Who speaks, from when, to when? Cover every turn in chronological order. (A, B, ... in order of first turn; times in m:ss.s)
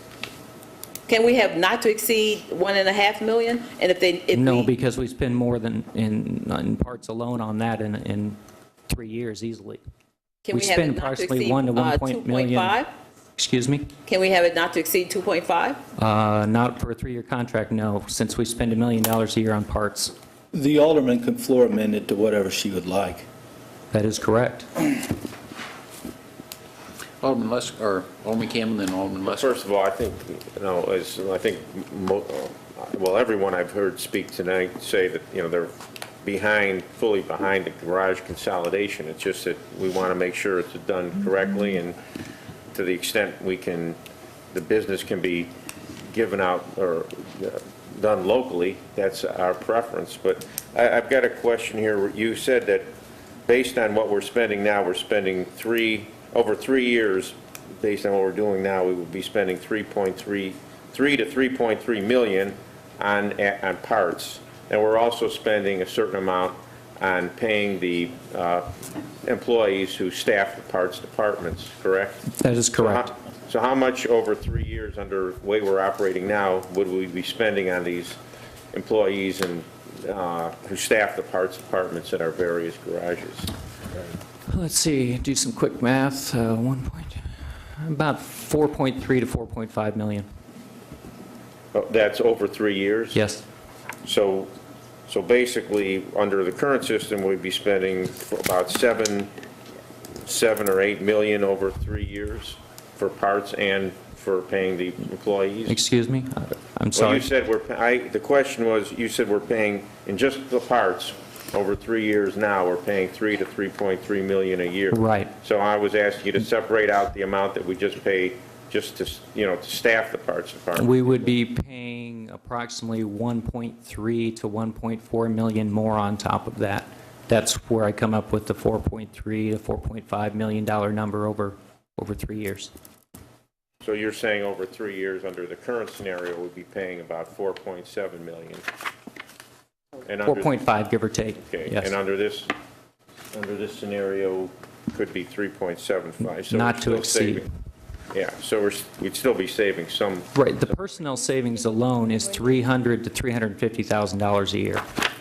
0:01.1-0:04.7 A
0:04.3-0:09.8 B
0:10.4-0:12.9 A
0:10.5-0:12.8 B
0:13.4-0:13.9 B
0:14.1-0:15.8 A
0:16.0-0:20.1 B
0:20.5-0:23.3 C
0:23.9-0:24.7 B
0:27.2-0:29.5 D
0:29.3-0:42.0 E
0:42.7-0:44.0 E
0:44.5-0:45.5 E
0:46.1-0:52.9 E
0:53.5-1:08.7 E
1:09.2-1:18.2 E
1:12.3-1:13.1 B
1:18.7-1:23.5 E
1:24.5-1:30.3 B
1:31.7-1:33.2 E
1:33.1-1:33.4 B
1:34.0-1:34.5 E
1:35.1-1:39.3 E
1:40.2-1:45.8 E
1:45.7-1:47.3 B
1:47.0-2:01.3 E
1:54.9-1:55.3 B
2:00.8-2:12.7 B
2:13.8-2:18.6 E
2:20.1-2:20.6 E
2:20.2-2:21.9 B
2:21.4-2:22.5 E
2:23.3-2:27.5 E
2:26.2-2:27.5 B
2:28.1-2:30.7 E
2:30.3-2:34.8 B